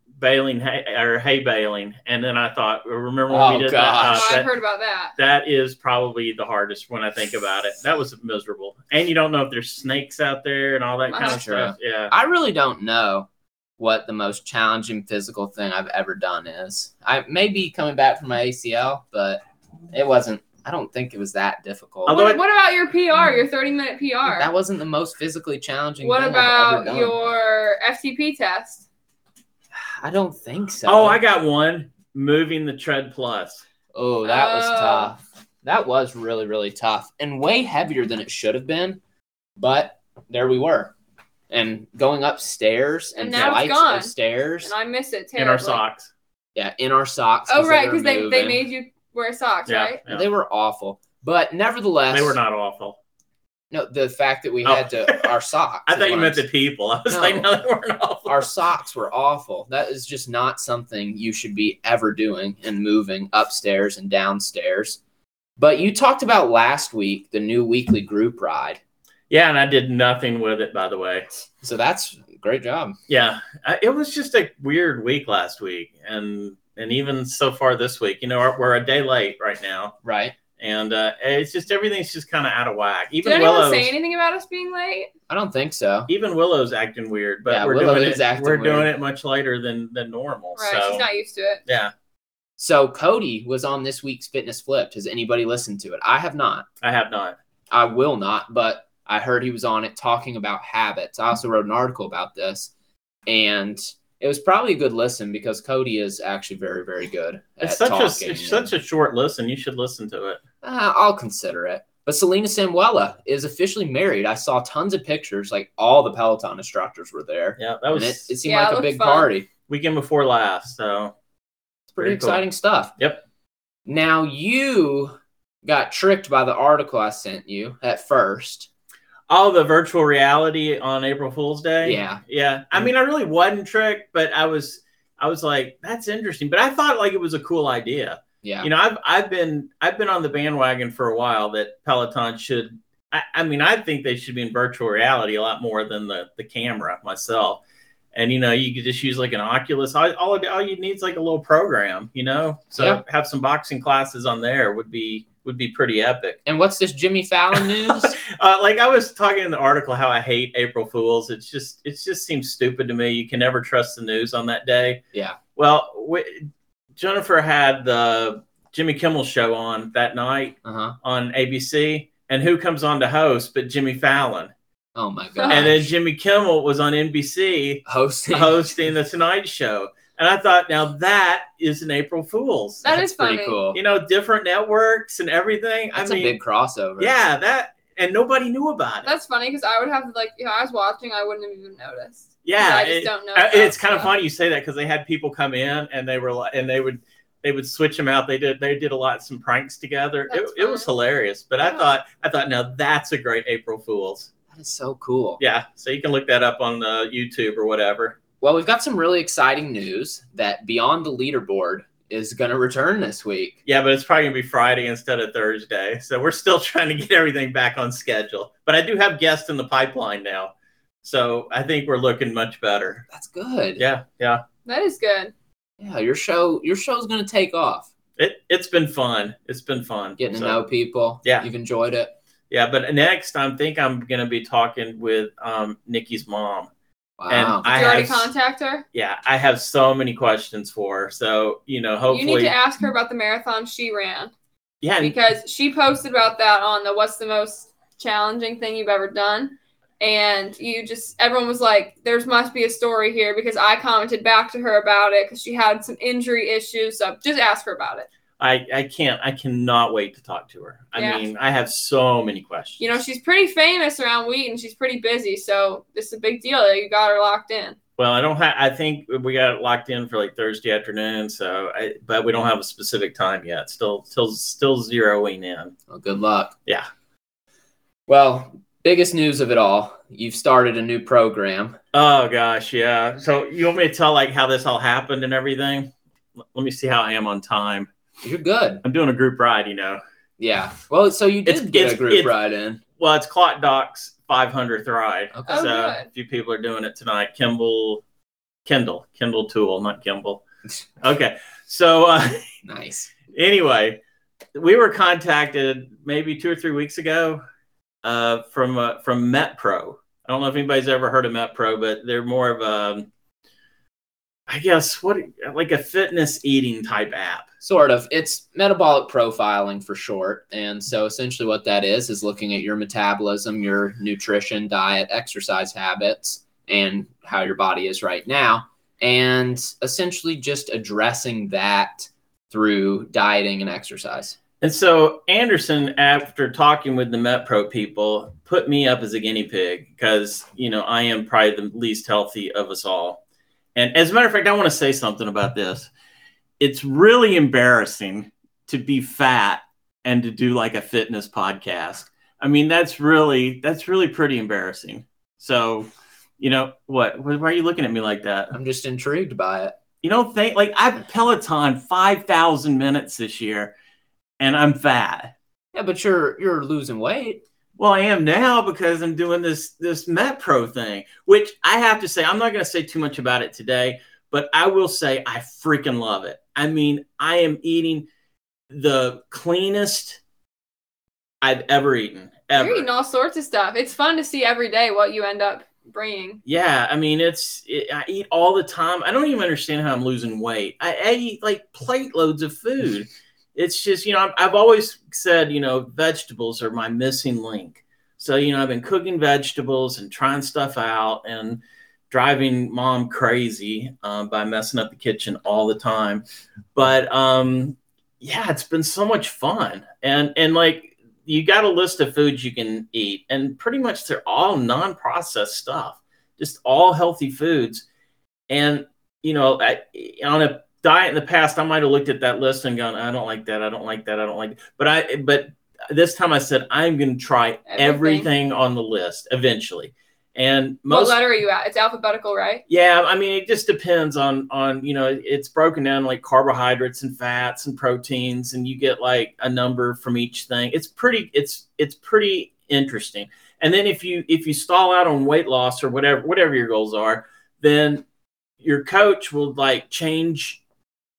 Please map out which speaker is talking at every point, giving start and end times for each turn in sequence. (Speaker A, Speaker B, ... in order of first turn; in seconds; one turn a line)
Speaker A: 0.2-4.5
Speaker B: 3.3-4.3
Speaker C: 4.0-5.2
Speaker A: 5.2-12.1
Speaker C: 11.1-11.5
Speaker B: 11.2-22.2
Speaker A: 22.1-22.4
Speaker C: 22.1-24.5
Speaker B: 24.3-27.1
Speaker C: 26.0-28.9
Speaker B: 29.7-31.2
Speaker A: 30.9-33.6
Speaker B: 34.0-39.0
Speaker C: 34.2-35.1
Speaker B: 39.6-40.9
Speaker B: 41.5-44.7
Speaker C: 43.2-45.8
Speaker A: 45.4-46.1
Speaker B: 46.5-48.6
Speaker C: 47.5-50.0
Speaker A: 49.7-50.3
Speaker B: 50.1-52.4
Speaker A: 52.1-53.0
Speaker B: 53.7-56.5
Speaker A: 54.6-55.3
Speaker A: 55.9-58.5
Speaker B: 57.1-57.5
Speaker B: 58.3-65.0
Speaker B: 65.6-68.8
Speaker A: 69.3-71.3
Speaker B: 71.6-73.0
Speaker A: 73.1-80.0
Speaker B: 80.0-80.4
Speaker A: 80.6-83.9
Speaker C: 83.2-85.1
Speaker B: 85.3-86.1
Speaker A: 86.1-91.0
Speaker B: 87.5-88.9
Speaker C: 90.6-91.6
Speaker A: 91.7-91.9
Speaker B: 92.6-96.7
Speaker A: 96.8-97.4
Speaker B: 97.7-102.7
Speaker B: 103.3-108.7
Speaker A: 107.6-110.4
Speaker B: 110.6-119.5
Speaker A: 117.6-118.3
Speaker C: 118.5-119.3
Speaker A: 119.7-121.1
Speaker B: 121.9-122.9
Speaker A: 122.0-122.4
Speaker B: 123.9-128.7
Speaker A: 129.3-147.6
Speaker B: 131.8-132.2
Speaker B: 138.4-138.7
Speaker A: 148.1-156.4
Speaker B: 152.8-153.0
Speaker B: 156.5-158.2
Speaker A: 157.5-165.0
Speaker B: 165.1-165.4
Speaker A: 165.6-166.4
Speaker A: 167.0-174.5
Speaker B: 170.6-171.0
Speaker B: 175.0-175.9
Speaker C: 175.4-175.7
Speaker A: 175.5-182.9
Speaker B: 177.9-178.7
Speaker C: 182.8-183.6
Speaker B: 182.8-183.8
Speaker A: 183.7-186.4
Speaker B: 185.9-187.2
Speaker A: 187.0-189.1
Speaker C: 189.1-194.1
Speaker A: 192.4-204.3
Speaker C: 200.3-200.9
Speaker B: 204.5-205.4
Speaker A: 205.4-208.2
Speaker B: 208.4-213.6
Speaker A: 213.7-220.5
Speaker A: 221.0-223.1
Speaker B: 223.1-223.8
Speaker A: 223.8-224.4
Speaker C: 224.7-225.3
Speaker B: 225.8-227.9
Speaker A: 228.2-230.6
Speaker B: 230.2-232.1
Speaker A: 232.5-236.7
Speaker B: 237.2-237.7
Speaker A: 237.3-238.3
Speaker C: 237.7-238.8
Speaker A: 238.9-242.5
Speaker C: 242.1-244.3
Speaker A: 244.8-245.2
Speaker C: 245.0-258.1
Speaker A: 258.4-262.8
Speaker C: 260.9-261.3
Speaker C: 262.8-267.8
Speaker A: 268.0-275.7
Speaker B: 275.9-276.6
Speaker B: 278.1-281.8
Speaker A: 281.9-285.9
Speaker A: 286.5-287.9
Speaker B: 288.2-288.8
Speaker A: 288.8-290.0
Speaker B: 290.4-292.8
Speaker A: 291.5-292.3
Speaker A: 293.0-298.0
Speaker B: 295.3-295.7
Speaker C: 295.5-296.1
Speaker A: 298.7-300.4
Speaker A: 301.0-302.5
Speaker B: 302.6-303.1
Speaker A: 303.3-304.0
Speaker A: 304.6-307.4
Speaker A: 308.0-313.1
Speaker A: 314.5-317.5
Speaker B: 317.6-334.4
Speaker A: 334.6-343.2
Speaker A: 343.8-345.9
Speaker A: 346.6-355.9
Speaker A: 356.4-358.6
Speaker B: 358.5-359.8
Speaker A: 360.0-363.7
Speaker A: 364.4-365.3
Speaker B: 365.7-367.4
Speaker A: 367.8-378.1
Speaker A: 378.7-380.2
Speaker A: 381.4-382.9
Speaker C: 382.6-386.4
Speaker A: 386.4-406.2
Speaker A: 406.8-417.9
Speaker A: 418.5-431.2
Speaker C: 427.7-428.3
Speaker C: 430.9-432.6
Speaker A: 432.7-448.1
Speaker A: 448.6-450.6